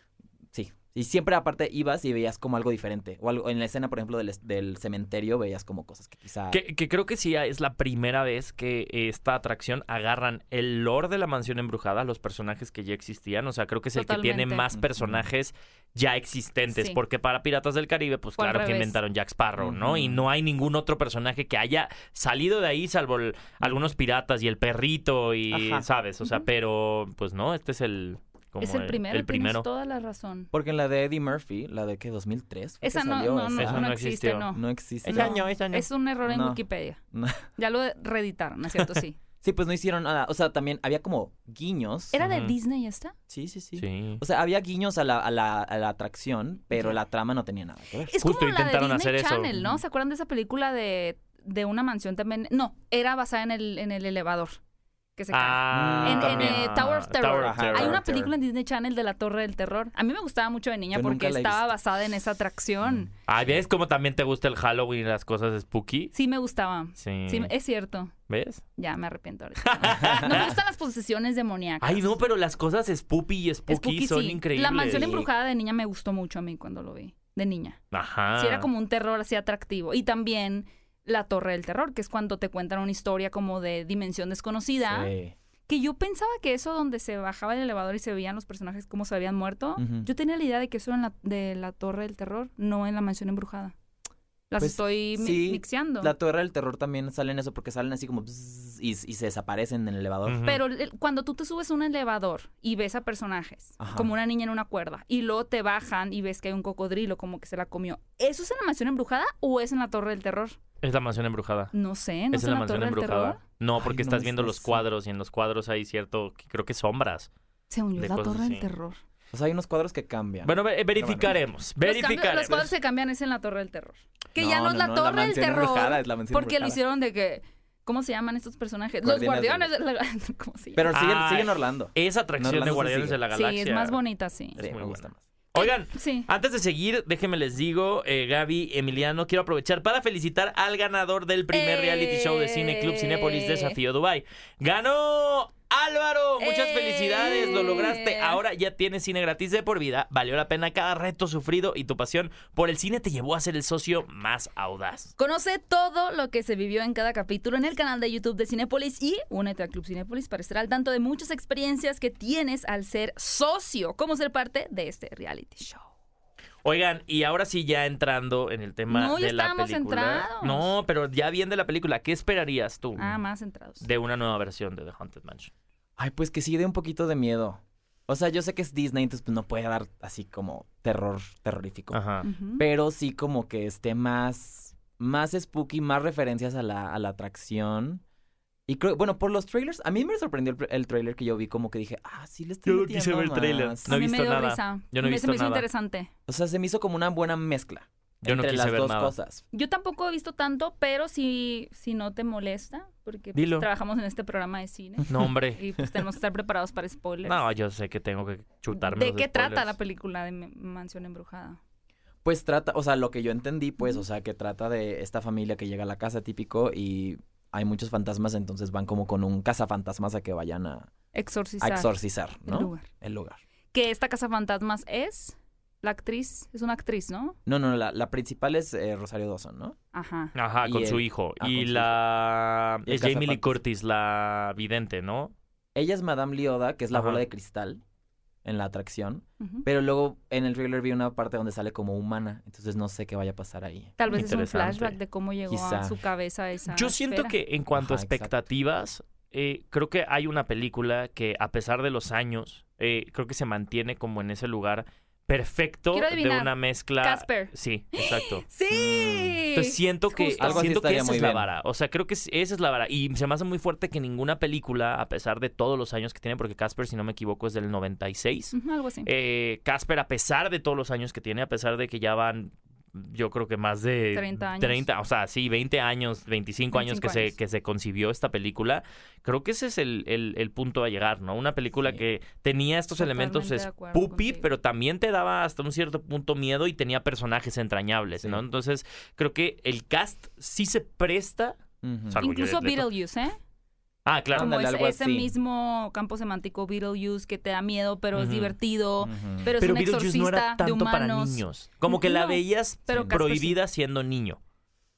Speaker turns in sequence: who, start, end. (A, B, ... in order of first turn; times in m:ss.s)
0:00.5-0:06.6 A
0:06.5-0:29.6 B
0:14.0-0:14.7 C
0:14.7-0:15.3 A
0:16.7-0:17.0 C
0:18.4-0:19.0 C
0:19.6-0:20.2 A
0:25.5-0:25.9 A
0:28.6-0:30.5 C
0:30.5-0:33.9 A
0:32.8-0:37.0 C
0:33.6-0:34.5 B
0:34.5-0:35.5 A
0:35.0-0:35.9 B
0:36.2-0:37.4 A
0:37.6-0:39.2 C
0:39.4-0:42.2 A
0:42.1-0:43.2 C
0:42.2-0:42.5 B
0:43.3-0:48.1 A
0:43.8-0:44.2 B
0:48.0-0:54.6 C
0:48.2-0:49.5 B
0:49.5-0:49.8 A
0:55.2-1:03.1 C
0:55.3-0:58.0 B
0:55.7-0:56.8 A
0:57.4-0:58.3 A
1:00.9-1:01.7 A
1:02.8-1:03.1 A
1:03.3-1:06.1 B
1:06.1-1:08.1 C
1:07.0-1:07.5 B
1:08.3-1:08.6 B
1:08.8-1:12.1 C
1:09.6-1:10.6 B
1:09.9-1:10.5 A
1:11.8-1:15.1 B
1:13.7-1:17.8 C
1:14.8-1:15.3 A
1:17.9-1:18.7 B
1:18.4-1:25.1 C
1:24.8-1:25.4 A
1:25.7-1:33.7 C
1:29.8-1:30.1 A
1:34.5-1:36.1 C
1:34.6-1:40.4 A
1:40.3-1:40.6 B
1:40.4-1:50.6 C
1:43.8-1:44.1 A
1:50.8-1:51.7 B
1:51.7-1:53.4 C
1:52.3-1:57.3 B
1:53.8-1:54.8 A
1:57.7-1:59.0 C
1:58.0-1:58.7 B
1:59.3-2:01.4 A
2:00.4-2:02.7 B
2:01.8-2:10.9 C
2:04.4-2:06.8 A
2:09.0-2:09.7 A
2:10.8-2:13.2 A
2:10.9-2:14.0 B
2:13.3-2:14.6 C
2:14.6-2:15.2 A
2:14.6-2:35.1 B
2:15.6-2:16.3 C
2:21.5-2:23.8 C
2:26.4-2:28.4 C
2:35.2-2:45.9 C
2:46.6-2:53.2 B
2:48.9-2:50.7 C
2:53.0-2:53.8 C
2:53.8-2:55.5 B
2:56.0-3:02.0 A
3:01.9-3:02.2 B
3:02.2-3:02.6 C
3:02.6-3:08.0 A
3:08.7-3:13.9 A
3:12.7-3:15.6 B
3:13.9-3:16.1 C
3:16.3-3:19.4 A
3:18.2-3:19.1 B
3:19.5-3:27.5 C
3:23.4-3:23.7 B
3:25.1-3:25.6 B
3:27.2-3:29.7 B
3:28.7-3:31.6 C
3:32.2-3:40.9 A
3:41.1-3:42.9 C
3:41.6-3:43.4 A
3:43.7-3:47.4 C
3:47.5-3:49.8 A
3:49.9-3:50.4 C
3:50.4-3:55.3 B
3:50.6-3:51.9 A
3:52.9-3:53.6 A
3:55.8-3:57.8 A
3:56.9-3:57.2 B
3:58.4-4:04.0 A
3:59.4-3:59.6 C
4:04.0-4:07.4 C
4:04.1-4:05.0 B
4:05.5-4:06.0 A
4:06.7-4:52.9 B
4:07.7-4:08.3 A
4:15.9-4:20.7 C
4:18.7-4:19.4 A
4:20.4-4:21.5 A
4:28.5-4:29.1 C
4:34.1-4:34.9 C
4:36.7-4:37.4 C
4:43.0-4:44.5 C
4:51.8-4:52.2 A
4:52.2-4:53.4 C
4:54.1-4:54.6 B
4:54.3-4:55.3 A
4:54.4-5:03.6 C
4:58.1-4:58.6 B
4:59.0-4:59.5 A
4:59.6-5:04.4 B